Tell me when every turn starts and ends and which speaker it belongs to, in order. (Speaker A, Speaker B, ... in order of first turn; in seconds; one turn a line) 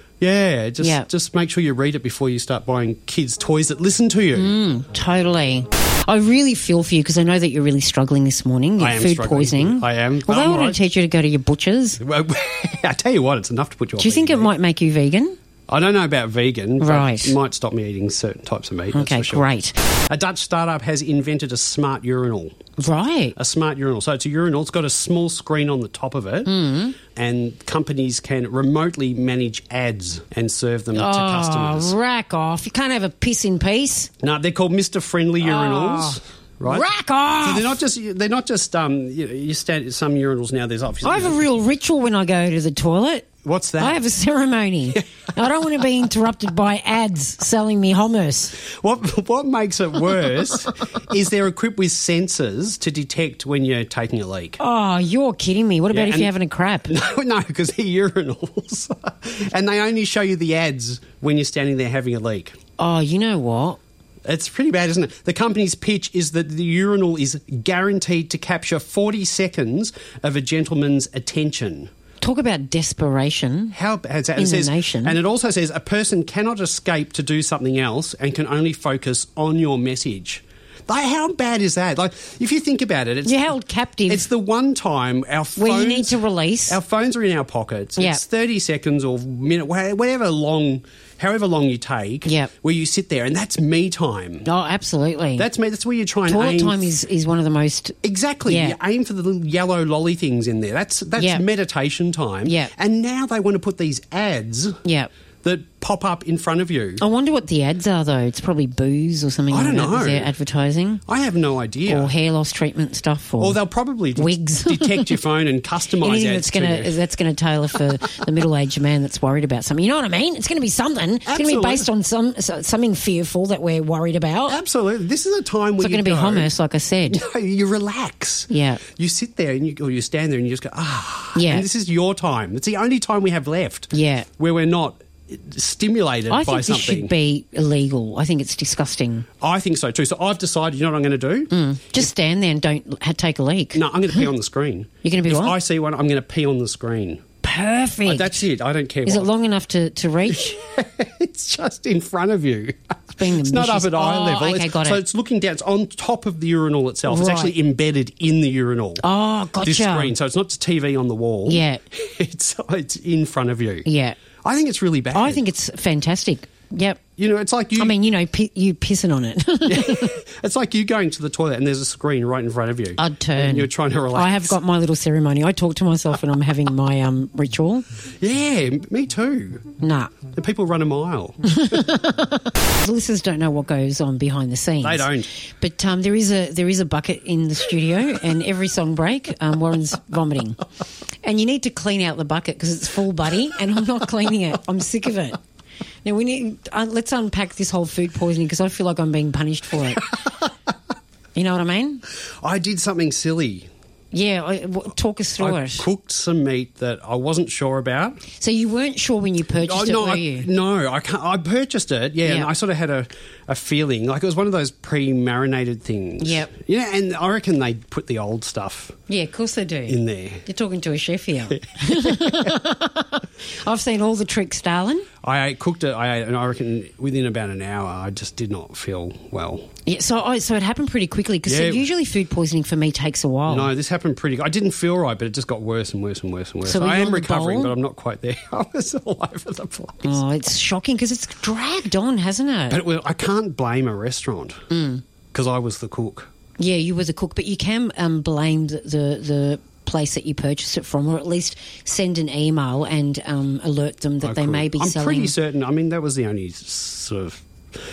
Speaker A: 0.2-4.5
Speaker B: 0.8-1.1
Speaker B: 4.3-12.0
Speaker A: 8.8-10.8
Speaker A: 12.0-14.5
Speaker B: 14.0-15.3
Speaker A: 15.7-19.5
Speaker B: 16.8-17.4
Speaker B: 18.9-19.8
Speaker A: 20.1-22.5
Speaker B: 22.8-23.4
Speaker A: 23.4-26.5
Speaker B: 26.4-27.0
Speaker A: 27.1-31.9
Speaker B: 30.9-34.1
Speaker A: 34.2-36.9
Speaker B: 35.4-37.8
Speaker A: 37.4-41.4
Speaker B: 41.0-48.6
Speaker A: 43.4-44.0
Speaker A: 48.6-54.6
Speaker B: 54.6-56.9
Speaker A: 55.9-56.3
Speaker A: 56.9-62.5
Speaker B: 62.8-63.8
Speaker A: 64.2-71.9
Speaker B: 72.2-73.8
Speaker A: 73.7-83.5
Speaker B: 74.4-75.2
Speaker B: 83.2-84.3
Speaker A: 84.1-94.5
Speaker B: 85.5-86.8
Speaker B: 88.0-88.2
Speaker B: 92.2-92.5
Speaker B: 94.4-95.5
Speaker A: 95.4-96.9
Speaker B: 96.3-98.8
Speaker A: 98.0-104.8
Speaker B: 101.2-101.4
Speaker B: 102.4-102.7
Speaker B: 104.8-105.1
Speaker A: 105.4-107.0
Speaker B: 107.0-111.0
Speaker A: 109.5-110.3
Speaker A: 111.0-112.1
Speaker B: 111.8-113.6
Speaker A: 113.4-116.9
Speaker B: 114.1-115.2
Speaker B: 115.9-124.6
Speaker A: 121.2-121.9
Speaker A: 124.5-126.5
Speaker B: 125.8-127.2
Speaker A: 127.1-137.1
Speaker B: 128.5-128.9
Speaker B: 131.3-131.7
Speaker B: 133.9-134.3
Speaker B: 136.3-139.3
Speaker A: 139.4-141.5
Speaker B: 141.5-144.3
Speaker A: 143.7-147.2
Speaker B: 145.0-145.6
Speaker B: 147.4-148.4
Speaker A: 148.1-149.3
Speaker B: 149.0-150.6
Speaker A: 150.3-159.0
Speaker B: 153.1-155.0
Speaker B: 157.1-157.6
Speaker B: 159.0-160.1
Speaker A: 159.6-163.9
Speaker B: 161.4-161.8
Speaker B: 163.8-164.3
Speaker A: 164.4-165.4
Speaker B: 165.1-167.0
Speaker A: 167.2-167.9
Speaker B: 167.8-170.2
Speaker A: 169.7-174.6
Speaker B: 172.9-177.8
Speaker A: 178.2-179.7
Speaker B: 179.8-180.2
Speaker A: 180.2-181.9
Speaker B: 181.5-190.6
Speaker A: 184.8-185.3
Speaker B: 191.2-195.4
Speaker B: 196.0-200.1
Speaker B: 201.3-202.0
Speaker A: 202.4-203.7
Speaker B: 204.1-205.9
Speaker A: 205.4-208.2
Speaker B: 208.3-210.5
Speaker A: 209.6-218.9
Speaker B: 212.2-212.5
Speaker B: 216.2-216.5
Speaker B: 219.1-225.1
Speaker A: 219.9-220.4
Speaker A: 221.7-222.3
Speaker A: 225.2-229.7
Speaker B: 229.8-233.7
Speaker A: 231.4-231.9
Speaker A: 233.5-240.2
Speaker B: 236.6-237.7
Speaker B: 240.0-242.8
Speaker A: 242.7-244.6
Speaker B: 244.7-245.0
Speaker A: 245.3-246.3
Speaker B: 246.6-255.3
Speaker A: 254.2-257.4